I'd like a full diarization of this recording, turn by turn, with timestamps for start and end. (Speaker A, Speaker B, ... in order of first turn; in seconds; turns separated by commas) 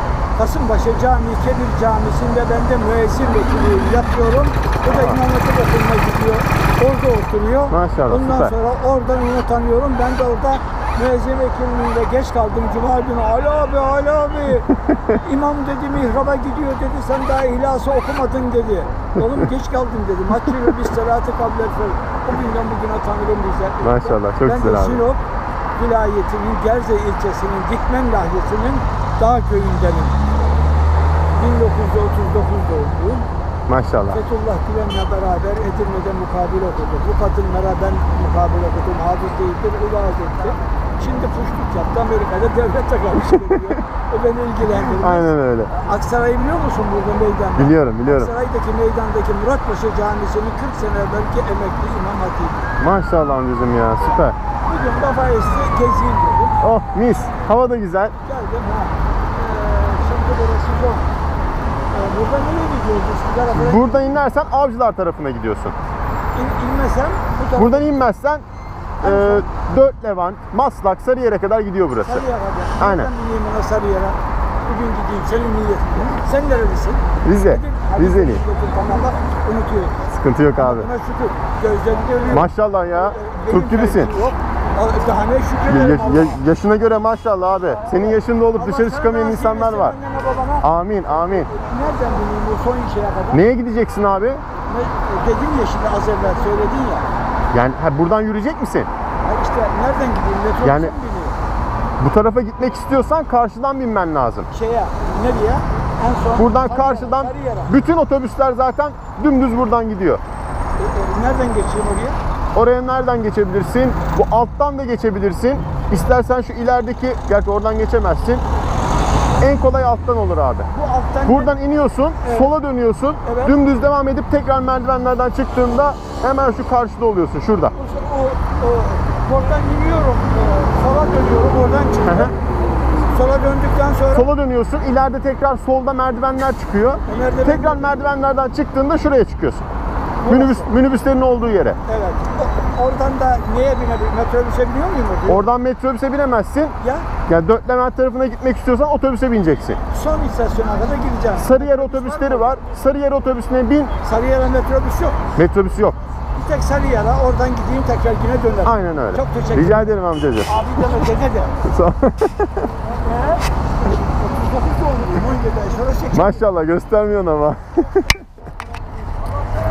Speaker A: 0.4-25.2, Speaker B: 4.9-5.2, Speaker B: 7.7-8.6, Speaker B: 23.8-25.1, Speaker A: 25.8-30.2, Speaker A: 31.4-33.3, Speaker B: 33.7-34.2, Speaker A: 34.1-52.6, Speaker B: 44.9-45.7, Speaker B: 47.6-48.3, Speaker B: 52.8-54.4, Speaker A: 54.6-56.6, Speaker B: 56.6-58.1, Speaker A: 58.2-61.1, Speaker A: 61.9-63.9, Speaker B: 63.5-65.8, Speaker A: 66.3-67.9, Speaker B: 67.5-68.5, Speaker A: 69.0-69.5, Speaker B: 69.0-72.2, Speaker A: 72.0-80.0, Speaker B: 72.8-73.1, Speaker B: 77.2-78.4, Speaker B: 80.1-80.9, Speaker A: 80.6-86.4, Speaker B: 82.3-84.1, Speaker B: 85.7-90.0, Speaker A: 88.5-90.7, Speaker B: 90.6-91.5, Speaker A: 91.3-93.4, Speaker B: 93.3-94.4, Speaker A: 94.7-97.1, Speaker B: 97.5-98.9, Speaker A: 99.2-101.4, Speaker B: 100.6-100.9, Speaker B: 102.0-104.5, Speaker A: 104.5-107.7, Speaker B: 106.4-110.2, Speaker A: 110.8-112.2, Speaker B: 112.5-118.4, Speaker B: 119.4-120.7, Speaker A: 120.7-121.5, Speaker B: 121.2-127.8, Speaker A: 122.2-122.5, Speaker A: 123.2-123.5, Speaker A: 127.8-132.4, Speaker B: 132.1-132.3, Speaker A: 133.1-134.3, Speaker B: 134.1-139.7, Speaker A: 137.1-137.9, Speaker A: 140.2-140.7, Speaker B: 140.3-141.8, Speaker A: 141.9-145.4, Speaker B: 145.3-146.8, Speaker A: 146.8-147.1, Speaker B: 147.3-149.8, Speaker A: 149.9-152.6, Speaker B: 151.4-153.9, Speaker A: 154.0-155.2, Speaker B: 155.3-156.0, Speaker A: 156.3-159.9, Speaker B: 158.7-160.5, Speaker A: 160.5-161.6, Speaker B: 161.6-162.7, Speaker A: 162.9-163.4, Speaker A: 164.0-166.4, Speaker B: 166.1-168.2